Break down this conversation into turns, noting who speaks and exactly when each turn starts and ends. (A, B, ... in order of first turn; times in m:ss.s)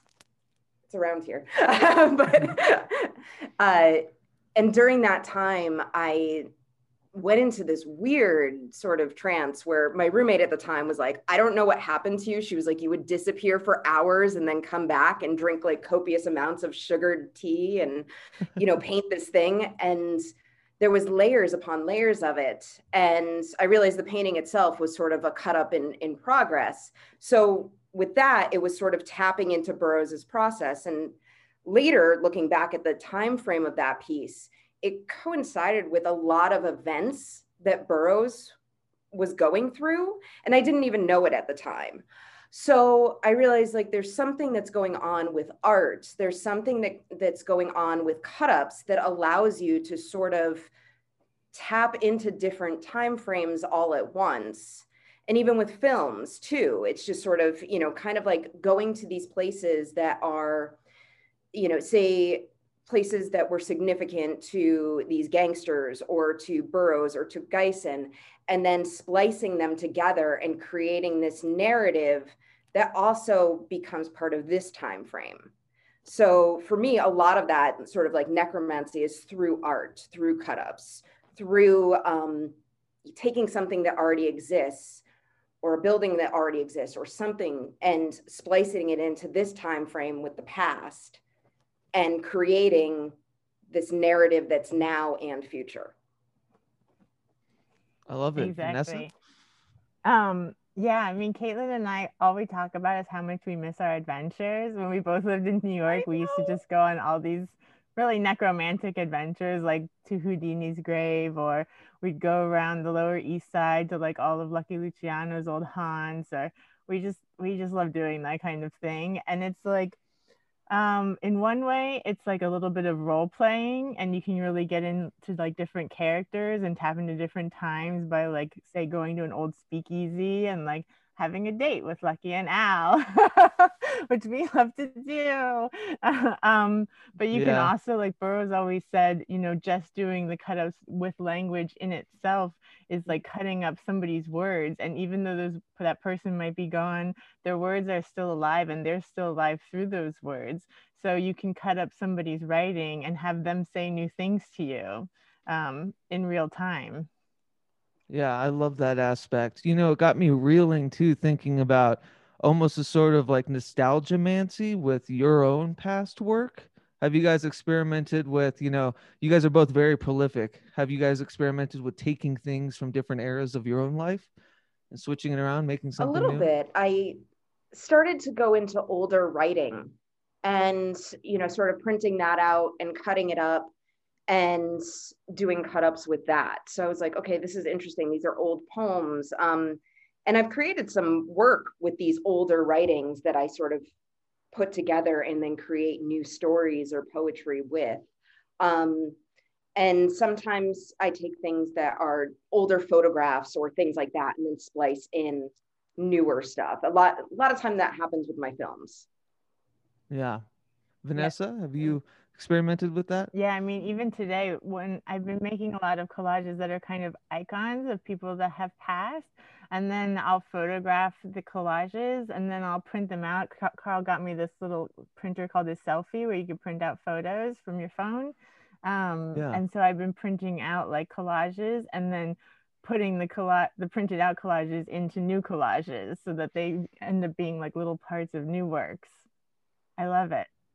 0:00.9-0:06.5 A
0:07.1-0:20.3 A
0:20.8-0:38.5 A
0:39.1-0:50.7 A
0:51.5-1:00.8 A
1:01.5-1:15.5 A
1:16.0-1:25.0 A
1:25.6-1:31.2 A
1:31.9-1:33.1 A
1:33.7-1:35.9 A
1:38.1-1:39.0 B
1:38.4-1:39.1 C
1:40.0-2:00.0 C
1:45.9-1:46.6 A
2:00.7-2:37.1 C
2:17.3-2:17.7 B
2:38.1-2:54.3 B
2:54.9-2:56.5 B
2:56.0-2:57.2 A
2:57.7-3:03.7 A
3:04.3-3:13.8 A
3:14.5-3:18.0 A
3:18.6-3:19.2 A
3:19.8-3:29.0 A
3:30.1-3:30.4 B
3:31.0-3:33.3 B
3:33.3-3:59.2 C
3:49.3-3:49.6 B
4:00.0-4:00.5 C